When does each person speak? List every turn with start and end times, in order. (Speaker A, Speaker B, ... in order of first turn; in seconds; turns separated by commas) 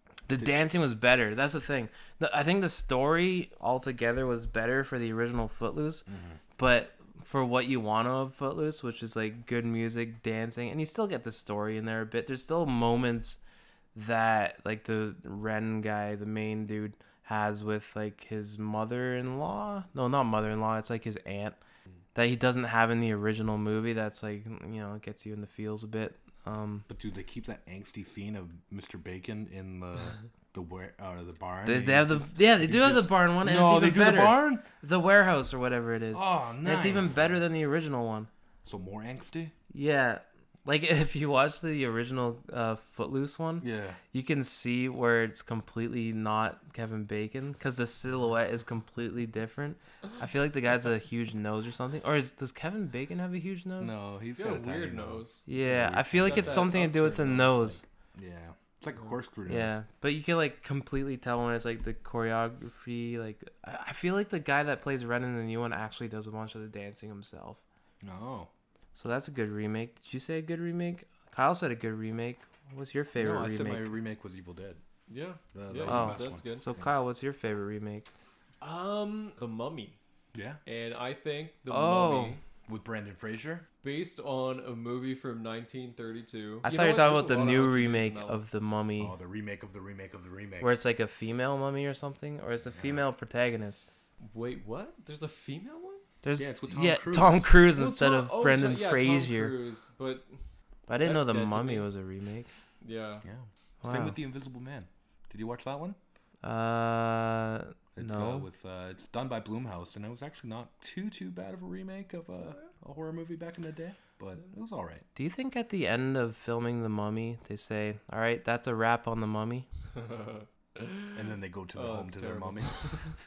Speaker A: 0.3-6.1, Speaker B: 6.1-6.4, Speaker A: 6.6-13.4, Speaker A: 13.9-21.6, Speaker A: 22.1-26.9, Speaker B: 26.9-34.7, Speaker A: 31.6-38.3, Speaker B: 36.1-37.4, Speaker B: 38.6-39.5, Speaker A: 39.7-54.0, Speaker B: 43.6-44.0, Speaker B: 53.8-56.7, Speaker C: 54.4-55.4, Speaker A: 55.5-57.8, Speaker C: 56.1-57.8, Speaker B: 57.6-59.8, Speaker A: 59.5-67.6, Speaker B: 68.0-68.5, Speaker A: 69.0-74.0, Speaker B: 73.2-74.8, Speaker C: 75.1-76.7, Speaker B: 75.5-76.9, Speaker A: 75.8-78.1, Speaker C: 78.6-80.0, Speaker B: 80.3-80.6, Speaker C: 80.7-82.4, Speaker A: 81.7-82.4, Speaker B: 82.7-83.7, Speaker C: 83.8-88.4, Speaker A: 86.7-89.1, Speaker B: 89.0-90.7, Speaker A: 90.6-93.9, Speaker B: 92.7-93.1, Speaker C: 94.2-96.0, Speaker A: 96.2-99.5, Speaker B: 96.4-97.5, Speaker C: 97.7-100.4, Speaker A: 100.9-102.5, Speaker C: 101.0-101.9, Speaker C: 102.8-103.2, Speaker B: 103.2-106.0, Speaker A: 103.8-104.2, Speaker A: 106.4-108.5, Speaker B: 108.0-115.0, Speaker A: 115.2-119.7, Speaker C: 119.9-121.2, Speaker B: 121.2-122.8, Speaker C: 121.7-123.1